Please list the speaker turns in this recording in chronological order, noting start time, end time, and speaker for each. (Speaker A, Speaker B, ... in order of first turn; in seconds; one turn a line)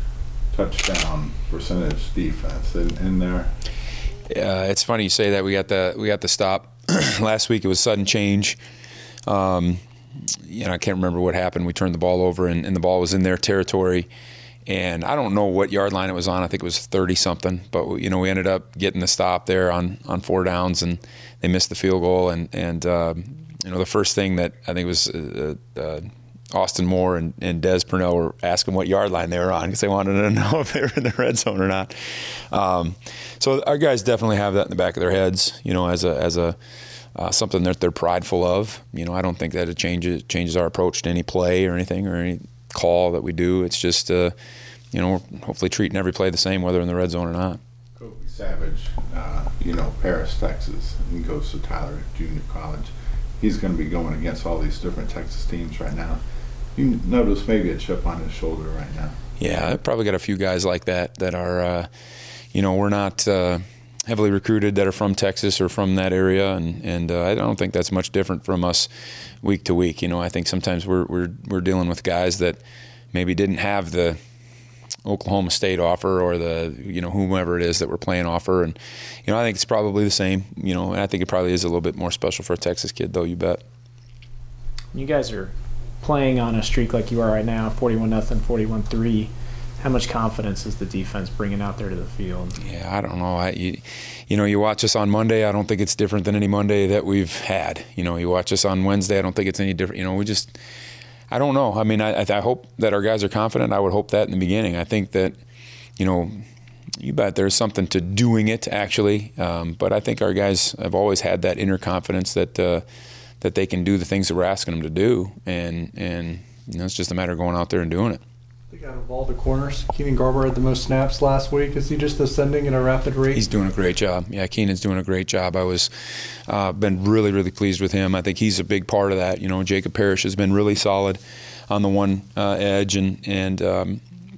Speaker A: 0.5-3.5
Speaker B: 4.3-8.6
Speaker B: 9.3-14.1
Speaker B: 14.7-36.6
Speaker B: 37.1-44.4
Speaker B: 44.9-47.6
Speaker A: 48.0-56.2
Speaker A: 56.8-59.2
Speaker B: 59.4-61.9
Speaker B: 62.5-68.9
Speaker B: 69.4-72.6
Speaker B: 73.1-74.2
Speaker B: 75.0-83.6
Speaker C: 84.9-92.6
Speaker B: 92.6-100.6
Speaker B: 101.3-105.4
Speaker B: 106.0-106.3
Speaker B: 107.0-112.8
Speaker B: 113.4-118.2
Speaker D: 118.7-123.4
Speaker B: 123.3-125.9
Speaker B: 126.5-134.0